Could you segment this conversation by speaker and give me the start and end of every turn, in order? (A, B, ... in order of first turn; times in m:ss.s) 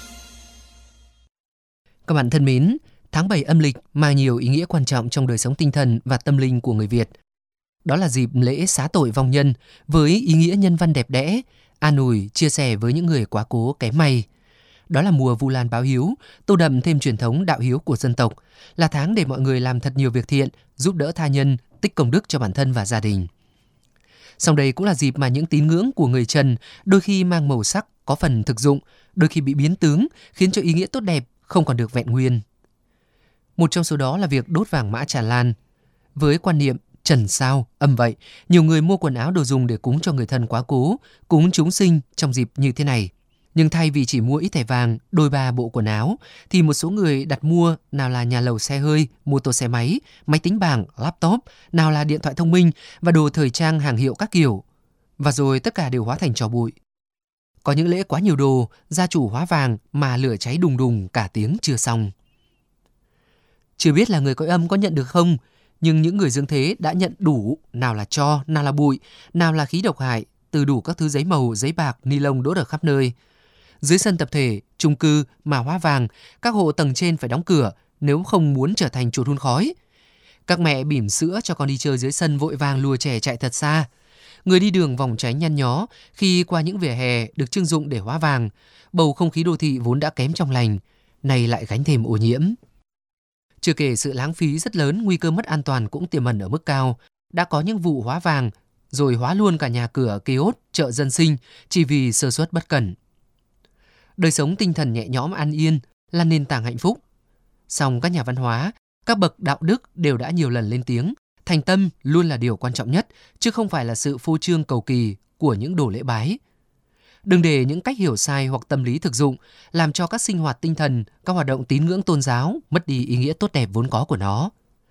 0:02.1-0:07.1 A
0:07.8-0:14.3 A
0:14.9-0:23.3 A
0:24.4-0:32.4 A
0:33.6-0:35.6 A
0:36.2-0:54.6 A
0:55.2-0:56.8 A
0:57.6-1:02.1 A
1:03.8-1:13.1 A
1:13.8-1:19.7 A
1:20.5-1:23.9 A
1:24.4-1:32.6 A
1:33.6-1:43.0 A
1:44.2-1:47.0 A
1:47.7-1:56.4 A
1:57.3-2:04.5 A